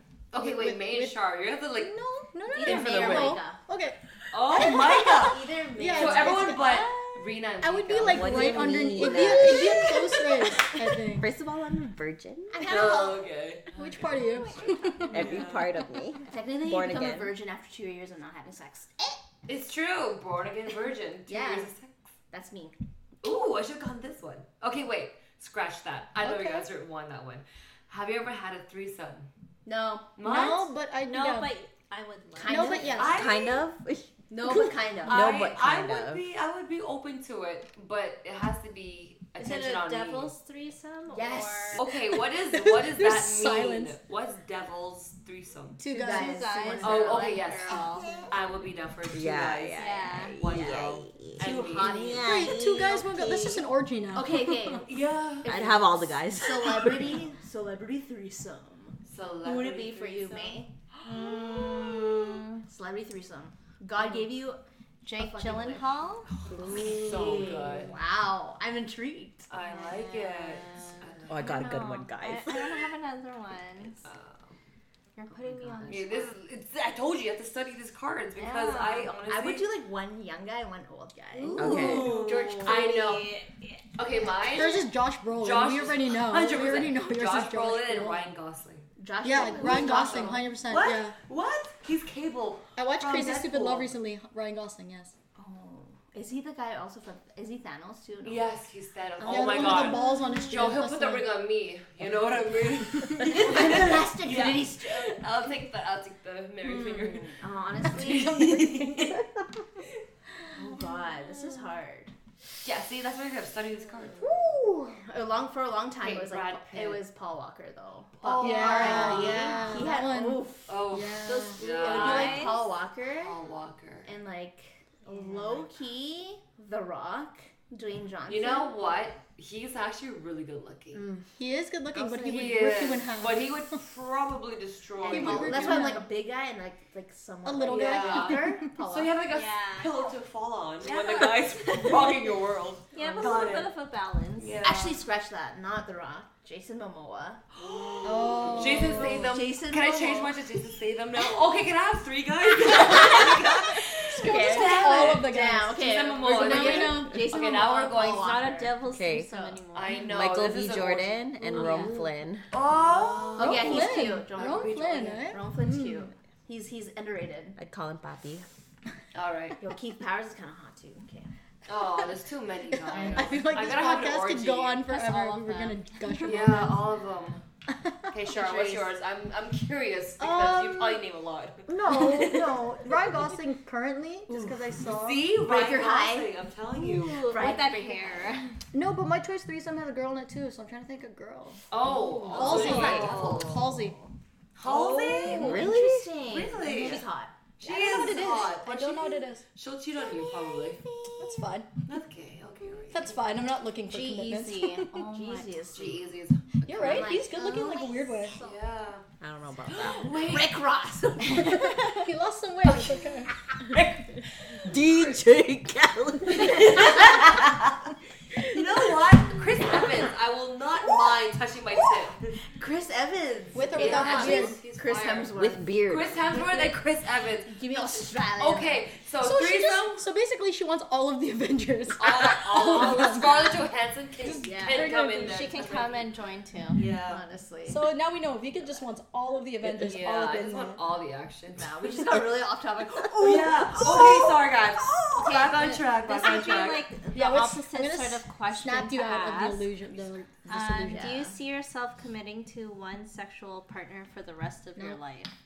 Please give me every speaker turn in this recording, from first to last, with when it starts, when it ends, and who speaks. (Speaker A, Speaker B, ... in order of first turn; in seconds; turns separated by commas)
Speaker A: 0.3-2.0, Speaker B: 0.4-1.2, Speaker B: 1.8-6.9, Speaker C: 2.5-3.6, Speaker A: 2.6-3.4, Speaker A: 4.3-8.8, Speaker C: 5.0-6.6, Speaker D: 6.6-7.2, Speaker B: 7.6-11.3, Speaker E: 8.0-9.9, Speaker C: 9.0-9.7, Speaker E: 11.0-12.7, Speaker C: 12.5-13.3, Speaker A: 12.7-14.2, Speaker B: 13.8-15.3, Speaker C: 14.6-14.9, Speaker A: 15.1-15.7, Speaker E: 15.1-17.3, Speaker C: 16.2-19.2, Speaker A: 19.5-21.9, Speaker C: 21.3-21.7, Speaker C: 22.3-22.8, Speaker A: 23.2-29.3, Speaker B: 26.2-26.6, Speaker C: 29.7-30.1, Speaker A: 30.2-30.7, Speaker B: 30.2-31.6, Speaker D: 31.0-33.0, Speaker C: 32.4-33.2, Speaker B: 32.5-33.4, Speaker A: 33.0-33.6, Speaker E: 33.1-36.2, Speaker C: 34.3-35.3, Speaker A: 35.0-40.4, Speaker D: 39.4-41.9, Speaker C: 41.1-41.8, Speaker A: 41.8-45.8, Speaker B: 42.7-44.0, Speaker B: 45.8-46.7, Speaker C: 45.9-47.5, Speaker D: 46.0-48.3, Speaker A: 46.8-52.1, Speaker E: 49.1-53.7, Speaker D: 49.8-50.4, Speaker C: 51.4-52.6, Speaker B: 52.2-54.8, Speaker C: 54.1-60.8, Speaker A: 54.9-55.5, Speaker E: 55.5-57.2, Speaker A: 59.1-62.4, Speaker D: 61.3-62.6, Speaker C: 62.6-64.6, Speaker D: 65.0-66.3, Speaker C: 65.1-65.9, Speaker A: 66.4-68.0, Speaker C: 66.5-69.5, Speaker A: 69.5-71.6, Speaker D: 69.6-74.1, Speaker E: 71.3-72.8, Speaker A: 74.0-74.5, Speaker D: 75.2-76.3, Speaker C: 75.3-76.1, Speaker A: 75.9-79.7, Speaker D: 78.4-79.2, Speaker C: 79.3-83.2, Speaker D: 81.3-83.9, Speaker E: 81.6-82.1, Speaker A: 81.6-83.4, Speaker A: 84.0-88.9, Speaker B: 84.5-88.3, Speaker C: 89.0-90.5, Speaker B: 89.2-91.2, Speaker A: 89.7-93.9, Speaker B: 92.8-95.2, Speaker C: 95.4-98.5, Speaker A: 98.2-109.3, Speaker C: 99.2-99.9, Speaker B: 99.2-101.3, Speaker B: 103.0-103.4, Speaker C: 103.3-105.2, Speaker B: 106.7-107.0, Speaker C: 107.0-108.6, Speaker B: 108.0-109.2, Speaker C: 110.5-112.1, Speaker A: 112.6-114.3, Speaker C: 114.2-120.8, Speaker A: 116.0-117.0, Speaker A: 118.2-119.9, Speaker B: 118.4-121.6, Speaker D: 118.9-119.2, Speaker A: 120.7-122.6, Speaker D: 121.3-122.7, Speaker C: 121.6-123.4, Speaker A: 123.2-124.1, Speaker C: 124.0-128.9, Speaker A: 128.3-131.1, Speaker B: 130.9-133.6, Speaker A: 131.9-135.9, Speaker B: 135.0-136.1, Speaker C: 135.0-139.2, Speaker B: 137.4-138.7, Speaker A: 137.7-143.7, Speaker D: 139.3-140.1, Speaker D: 140.8-142.2, Speaker D: 142.9-144.6, Speaker A: 144.4-145.0, Speaker C: 144.6-147.4, Speaker A: 147.6-158.3, Speaker B: 148.0-149.3, Speaker C: 148.0-150.4, Speaker C: 152.7-153.5, Speaker B: 154.1-157.3, Speaker C: 154.2-158.8, Speaker D: 158.0-160.1, Speaker E: 158.9-159.3, Speaker A: 159.7-162.0, Speaker E: 160.0-162.5, Speaker A: 162.5-164.8, Speaker C: 163.4-167.6, Speaker B: 163.4-166.1, Speaker E: 167.6-168.5, Speaker A: 169.1-169.6, Speaker C: 169.6-171.3, Speaker A: 171.7-174.8, Speaker B: 172.8-176.9, Speaker D: 174.8-176.5, Speaker A: 176.2-177.4, Speaker B: 177.9-178.1, Speaker A: 178.1-182.9, Speaker C: 178.3-178.9, Speaker B: 180.2-181.1, Speaker B: 181.7-185.3, Speaker A: 184.4-187.4, Speaker C: 185.4-186.3, Speaker D: 186.8-188.6, Speaker C: 187.2-188.5, Speaker B: 188.7-191.7, Speaker A: 191.7-193.7, Speaker C: 192.2-194.1, Speaker B: 192.3-194.0, Speaker D: 192.5-192.9, Speaker E: 192.6-192.9, Speaker A: 194.6-195.6, Speaker C: 194.6-198.5, Speaker E: 195.2-196.2, Speaker A: 196.3-197.1, Speaker A: 197.6-200.8, Speaker B: 197.7-199.4, Speaker C: 200.0-201.5, Speaker B: 201.2-201.7, Speaker A: 201.9-203.2, Speaker B: 202.9-204.9, Speaker C: 203.9-206.1, Speaker D: 204.8-205.7, Speaker A: 205.7-207.1, Speaker C: 206.7-208.6, Speaker B: 206.7-208.4, Speaker A: 208.4-209.0, Speaker E: 209.2-210.2, Speaker A: 209.7-210.5, Speaker C: 209.7-211.8, Speaker B: 211.3-213.3, Speaker E: 213.7-214.0, Speaker E: 214.6-218.9, Speaker A: 218.5-222.4, Speaker C: 222.4-225.7, Speaker B: 223.5-224.6, Speaker A: 223.7-225.3, Speaker E: 225.3-226.2, Speaker A: 225.9-230.0, Speaker C: 226.3-226.8, Speaker C: 227.4-228.8, Speaker B: 229.2-233.6, Speaker A: 232.0-235.9, Speaker B: 234.3-234.6, Speaker C: 234.3-234.9, Speaker D: 234.7-236.8, Speaker A: 236.8-237.2, Speaker C: 237.0-237.8, Speaker B: 237.7-240.8, Speaker A: 239.6-242.3, Speaker C: 241.6-244.2, Speaker A: 243.1-246.9, Speaker E: 243.7-245.3, Speaker C: 245.1-245.8, Speaker D: 245.9-249.7, Speaker B: 247.1-251.3, Speaker D: 250.5-255.3, Speaker C: 250.8-251.3